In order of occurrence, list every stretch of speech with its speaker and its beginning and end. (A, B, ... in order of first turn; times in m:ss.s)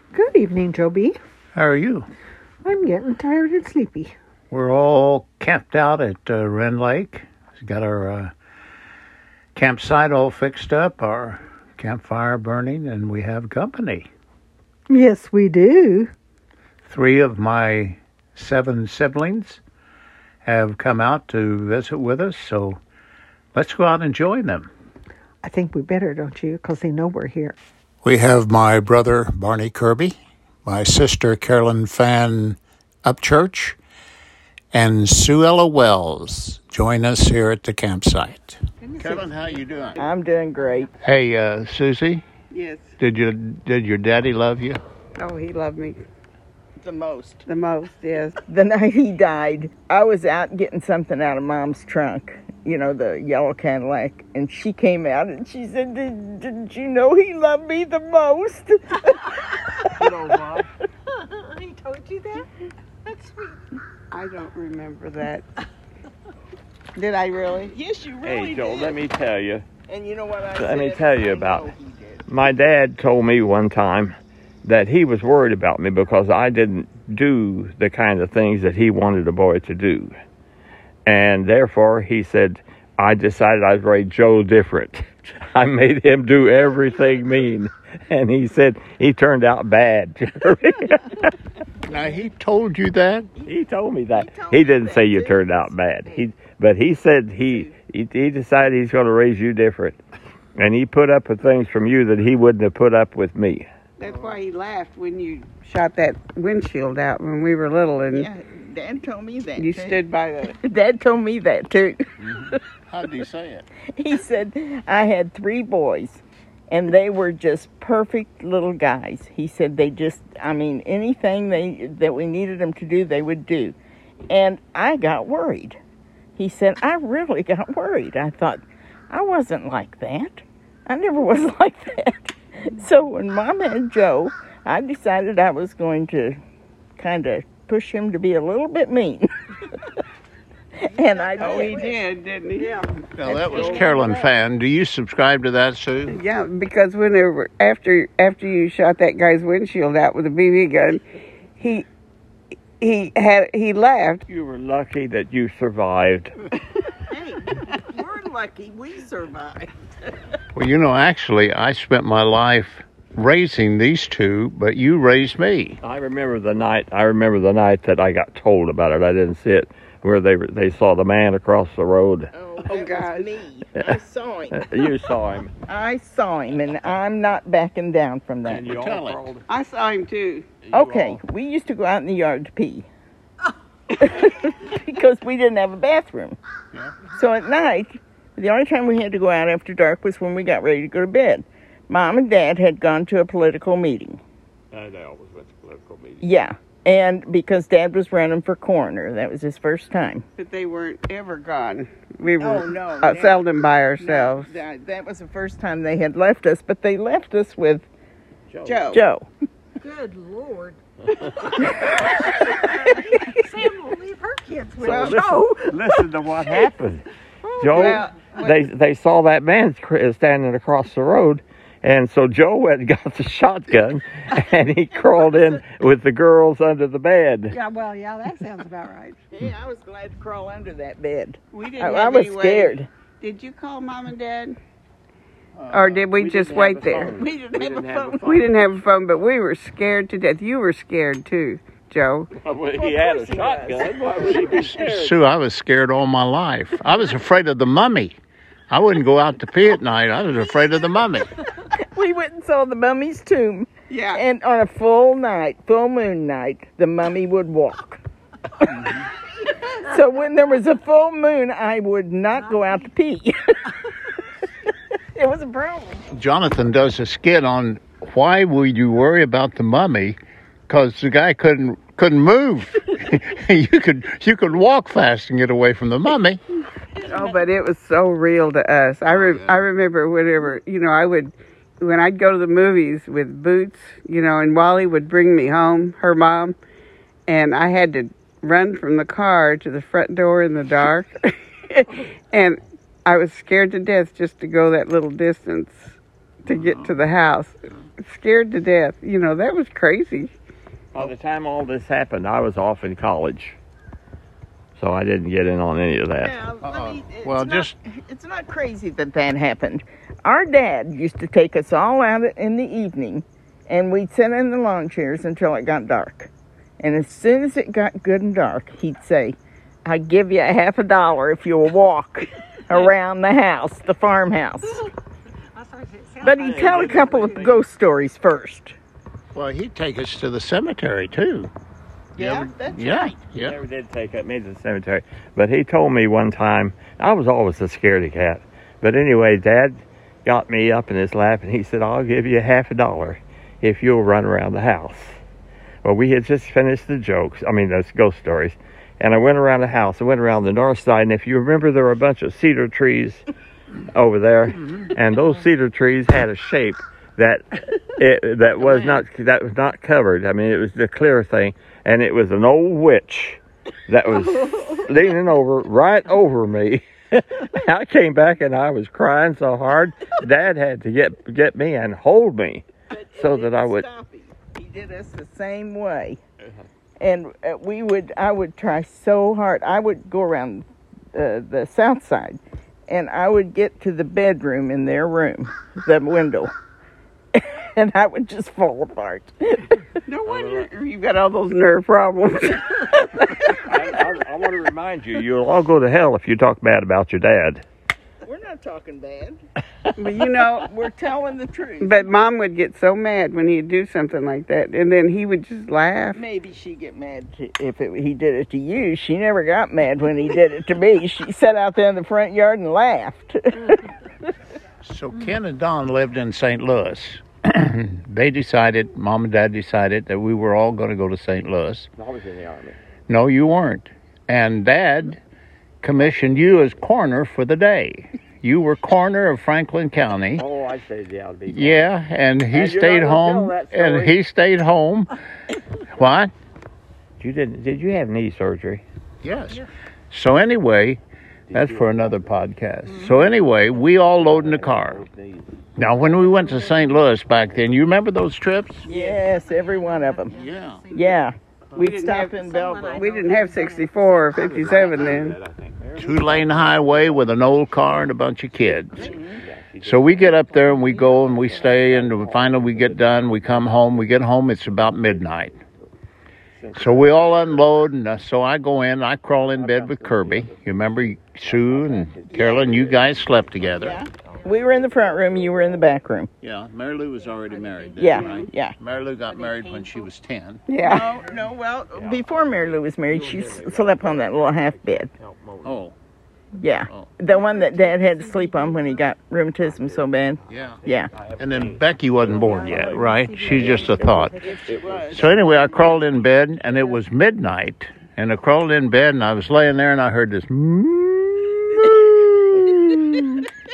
0:00.1-0:01.2 A
0:01.5-0:02.1 B
0:02.6-0:04.1 A
0:04.5-0:08.3 B
0:09.6-0:14.1 B
0:14.9-0:16.1 A
0:16.8-0:19.6 B
0:20.4-0:22.8 B
0:23.5-0:24.7 B
0:25.4-0:27.6 A
0:28.0-0:33.8 B
0:34.7-0:40.1 B
0:38.8-0:40.1 A
0:40.0-0:40.9 C
0:41.0-0:42.2 B
0:42.5-0:43.0 D
0:43.0-0:44.8 B
0:45.2-0:46.0 D
0:46.8-0:47.4 C
0:47.5-0:48.4 D
0:48.4-0:59.3 C
0:59.9-1:00.7 E
1:01.1-1:02.5 A
1:03.0-1:03.6 A
1:04.1-1:05.4 D
1:07.0-1:07.8 D
1:07.7-1:09.0 C
1:08.2-1:09.7 E
1:09.9-1:12.2 C
1:10.6-1:11.7 E
1:12.3-1:20.1 E
1:21.1-1:31.2 E
1:26.6-1:27.6 C
1:31.8-1:33.3 B
1:33.4-1:40.0 E
1:34.1-1:36.2 C
1:37.4-1:37.7 C
1:40.6-1:43.7 E
1:44.0-1:48.3 D
1:48.1-1:52.6 C
1:49.6-1:50.6 D
1:52.2-1:53.7 B
1:53.9-2:03.8 C
2:04.3-2:05.8 C
2:06.4-2:16.4 C
2:17.0-2:19.3 C
2:20.8-2:22.0 C
2:20.9-2:21.9 A
2:21.4-2:22.8 D
2:22.6-2:24.1 A
2:23.2-2:26.2 B
2:23.3-2:24.0 C
2:23.4-2:23.8 D
2:26.1-2:31.0 D
2:31.6-2:31.8 D
2:32.8-2:34.2 D
2:34.3-2:36.3 E
2:37.1-2:40.1 C
2:40.6-2:45.8 B
2:45.8-2:52.3 E
2:52.3-2:54.7 C
2:52.6-2:53.4 D
2:54.5-2:55.5 E
2:55.7-2:58.7 C
2:58.4-2:59.5 E
2:58.6-2:59.3 B
2:59.5-3:00.5 D
3:00.7-3:01.2 E
3:00.7-3:02.9 C
3:03.9-3:06.4 C
3:07.1-3:14.2 C
3:14.7-3:16.4 E
3:16.2-3:20.2 C
3:20.4-3:24.5 D
3:22.4-3:23.4 C
3:24.0-3:27.8 C
3:28.5-3:29.0 E
3:28.6-3:29.0 D
3:28.8-3:29.3 C
3:29.8-3:35.7 A
3:34.7-3:35.4 C
3:34.8-3:37.0 E
3:37.6-3:47.6 E
3:37.6-3:38.6 D
3:37.7-3:38.1 C
3:44.9-3:45.6 C
3:47.5-3:49.2 A
3:49.3-3:52.9 C
3:51.5-3:54.6 D
3:55.6-3:58.5 E
3:55.7-3:57.2 D
3:57.1-3:58.3 C
3:58.2-4:02.3 D
4:02.4-4:05.2 E
4:02.7-4:04.7 C
4:04.3-4:08.2 B
4:08.7-4:11.3 B
4:11.7-4:18.0 C
4:13.9-4:14.2 D
4:18.6-4:19.0 C
4:19.6-4:23.8 C
4:25.2-4:26.1 C
4:26.1-4:36.4 B
4:37.0-4:46.6 D
4:39.1-4:39.6 B
4:47.3-5:00.3 D
4:56.5-4:57.0 B
5:00.9-5:03.6 E
5:04.8-5:06.4 E
5:06.2-5:24.9 C
5:06.6-5:07.8 B
5:25.5-5:27.3 A
5:26.2-5:27.6 E
5:26.2-5:28.8 C
5:29.3-5:31.5 B
5:32.2-5:33.2 C
5:32.2-5:33.6 B
5:33.4-5:45.2 E
5:45.8-5:53.3 E
5:53.9-6:13.9 E
6:04.3-6:04.8 A
6:12.9-6:16.2 C
6:17.0-6:26.5 C
6:27.3-6:29.8 C
6:30.0-6:33.4 D
6:30.3-6:30.7 E
6:33.5-6:37.6 E
6:38.2-6:39.4 C
6:40.0-6:40.7 D
6:40.6-6:42.1 C
6:41.8-6:46.2 D
6:46.2-6:53.9 C
6:54.8-7:01.9 B
7:02.0-7:02.8 E
7:03.1-7:05.2 B
7:05.8-7:10.4 B
7:10.4-7:11.9 E
7:11.5-7:15.2 B
7:12.5-7:14.2 E
7:15.9-7:16.3 B
7:17.2-7:18.8 E
7:19.2-7:21.0 B
7:21.5-7:22.4 E
7:21.5-7:25.0 B
7:22.9-7:23.2 A
7:23.8-7:25.7 E
7:25.8-7:28.9 B
7:26.4-7:26.8 A
7:28.8-7:33.2 C
7:28.9-7:29.2 E
7:29.2-7:31.2 A
7:30.3-7:30.8 B
7:31.8-7:35.4 D
7:32.2-7:34.4 A
7:34.3-7:38.0 E
7:36.0-7:39.2 B
7:38.9-7:45.3 E
7:39.0-7:39.4 C
7:39.8-7:45.6 B
7:40.7-7:41.0 A
7:46.6-7:47.8 E
7:46.7-7:54.0 B
7:49.4-7:56.0 E
7:52.3-7:52.8 C
7:53.8-7:56.3 C
7:56.4-8:00.6 B
7:57.4-7:58.1 A
7:58.0-7:58.8 C
7:58.0-7:58.5 D
7:59.3-8:00.1 A
8:00.7-8:01.2 D
8:00.8-8:05.1 C
8:01.0-8:01.5 A
8:01.9-8:05.9 E
8:05.6-8:05.9 B
8:06.6-8:11.1 C
8:07.2-8:09.1 A
8:09.6-8:16.0 E
8:10.5-8:10.8 B
8:11.4-8:14.4 B
8:12.3-8:14.7 A
8:14.4-8:16.0 C
8:15.1-8:23.5 B